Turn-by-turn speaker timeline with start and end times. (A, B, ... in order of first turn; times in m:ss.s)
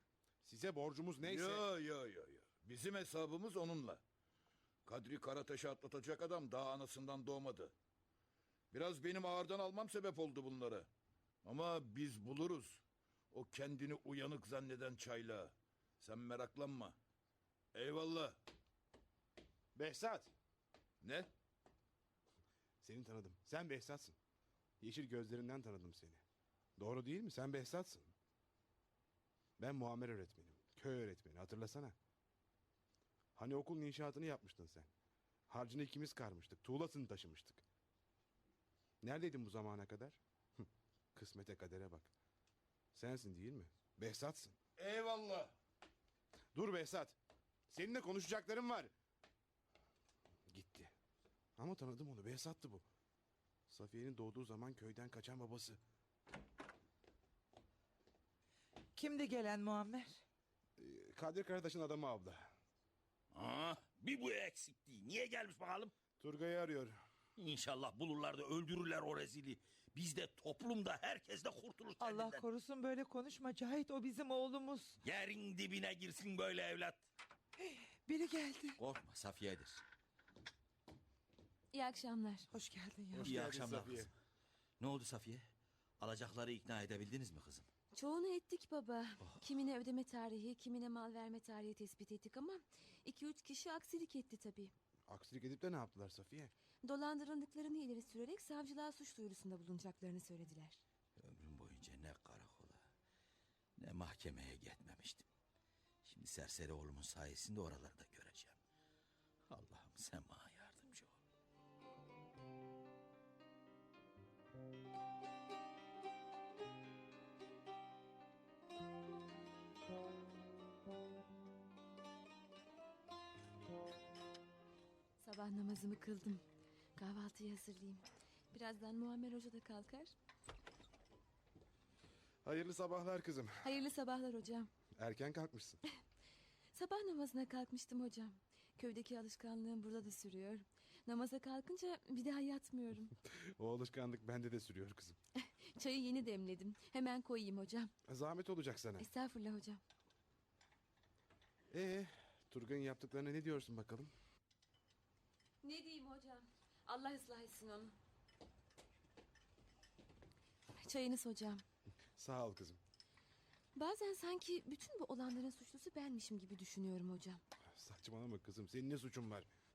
0:00.4-0:01.6 A
0:01.3-0:04.0 B
0:04.9-0:07.7 B
0:08.7-0:10.9 B
0:11.4-0:12.8 B
0:13.3-0:17.0 B
0:17.8-0:18.4 B
0:19.8-0:20.3 A
0:21.0-0:21.3 B
0:22.8-0:24.2 A
0:24.8-0:26.2 A
0:26.8-0:28.1 A
0:29.6-0:32.0 A
0:33.4-0:34.9 A
0:35.5-0:37.6 A
0:39.0-0:42.1 A
0:43.0-0:44.6 A
0:44.8-0:45.5 B
0:46.6-0:47.2 A
0:47.7-0:48.9 A
0:50.5-0:50.9 A
0:51.6-0:52.8 A
0:53.7-0:55.8 A
0:59.0-1:00.2 C
1:00.8-1:02.5 A
1:03.3-1:05.9 D
1:06.2-1:07.0 A
1:07.4-1:12.4 D
1:12.0-1:15.0 C
1:15.0-1:17.1 D
1:17.6-1:18.8 C
1:18.8-1:19.8 D
1:21.7-1:22.5 E
1:22.5-1:23.4 C
1:23.1-1:24.1 A
1:23.2-1:24.1 D
1:24.8-1:25.4 D
1:26.0-1:27.7 D
1:27.9-1:34.7 E
1:35.1-1:36.5 A
1:36.8-1:40.8 E
1:41.2-1:42.8 D
1:43.8-1:45.3 D
1:46.0-1:48.6 D
1:49.5-1:51.2 D
2:05.2-2:06.4 E
2:07.0-2:10.1 E
2:12.4-2:13.7 A
2:13.6-2:14.7 E
2:15.0-2:15.8 A
2:16.7-2:23.1 E
2:23.6-2:25.2 A
2:25.4-2:27.9 E
2:28.1-2:29.1 A
2:29.0-2:29.8 E
2:31.7-2:34.1 A
2:35.6-2:38.0 E
2:40.7-2:41.6 E
2:42.2-2:42.8 A
2:43.8-2:47.4 E
2:47.8-2:49.5 A